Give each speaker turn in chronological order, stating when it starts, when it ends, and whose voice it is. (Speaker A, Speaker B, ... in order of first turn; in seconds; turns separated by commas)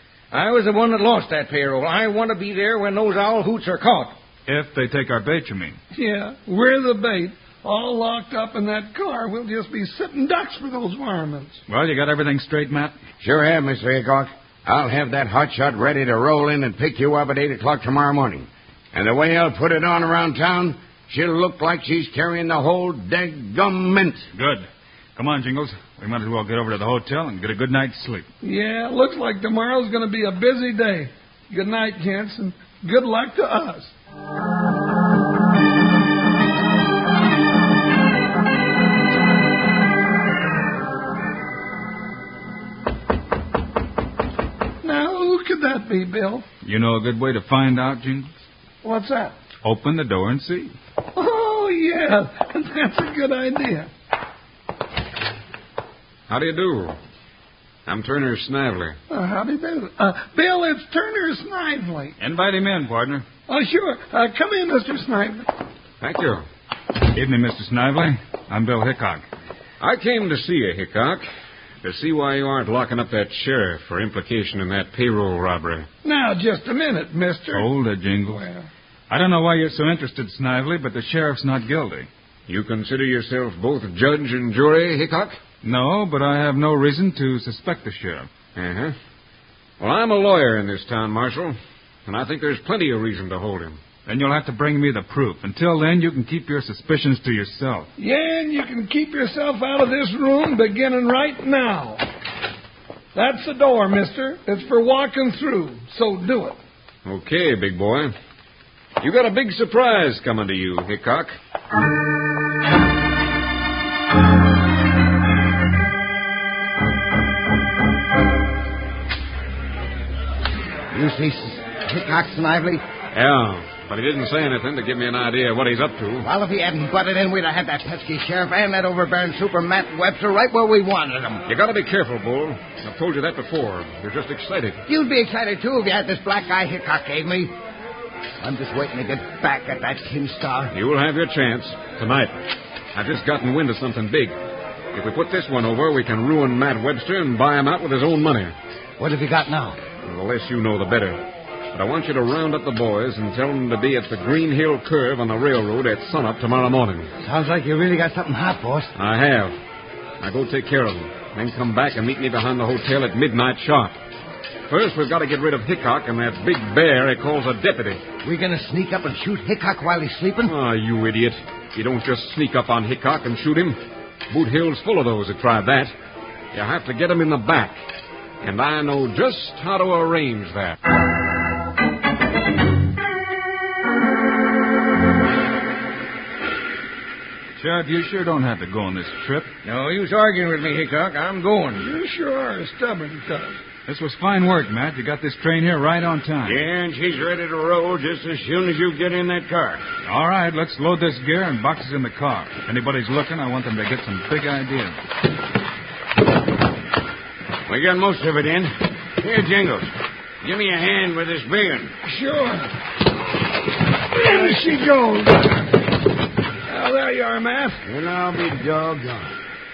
Speaker A: 0.3-4.2, Speaker B: 4.5-5.8, Speaker C: 5.9-11.6, Speaker B: 11.7-12.9, Speaker D: 13.2-24.3, Speaker B: 24.3-28.3, Speaker C: 28.4-33.9, Speaker C: 44.8-46.5, Speaker B: 46.6-48.4, Speaker C: 48.8-49.4, Speaker B: 49.6-50.7, Speaker C: 51.1-53.9, Speaker E: 56.3-57.0, Speaker E: 57.9-59.0, Speaker C: 59.1-62.1, Speaker B: 62.2-63.3, Speaker C: 63.5-65.5, Speaker E: 66.0-66.5, Speaker B: 67.1-69.2, Speaker E: 69.8-71.2, Speaker E: 71.8-75.9, Speaker C: 76.0-77.7, Speaker B: 77.5-78.5, Speaker C: 78.3-78.7, Speaker B: 79.1-82.1, Speaker E: 82.5-85.4, Speaker B: 85.6-88.3, Speaker E: 88.5-89.0, Speaker E: 89.8-93.8, Speaker B: 94.1-97.9, Speaker C: 98.0-102.0, Speaker C: 103.1-106.6, Speaker E: 107.0-108.1, Speaker E: 109.0-111.3, Speaker F: 120.9-122.8, Speaker E: 123.1-126.3, Speaker F: 126.2-131.4, Speaker E: 131.5-134.8, Speaker F: 134.9-137.5, Speaker F: 138.4-140.7, Speaker E: 140.7-142.3, Speaker E: 142.9-144.3, Speaker E: 144.9-148.6, Speaker F: 149.0-149.8, Speaker E: 150.0-151.2, Speaker E: 151.7-157.1, Speaker F: 157.2-158.9, Speaker E: 159.0-159.6, Speaker E: 160.2-163.9, Speaker E: 164.7-168.0, Speaker F: 168.2-170.5, Speaker E: 170.4-173.8, Speaker E: 174.3-175.9, Speaker E: 176.5-177.8, Speaker E: 178.4-180.8, Speaker B: 187.6-189.5, Speaker A: 189.7-191.8, Speaker C: 191.8-193.6, Speaker B: 193.9-196.6, Speaker D: 196.4-199.8, Speaker B: 200.1-205.0, Speaker D: 207.7-211.9, Speaker C: 212.0-212.7, Speaker C: 214.2-215.7, Speaker C: 216.7-217.8, Speaker D: 217.9-219.4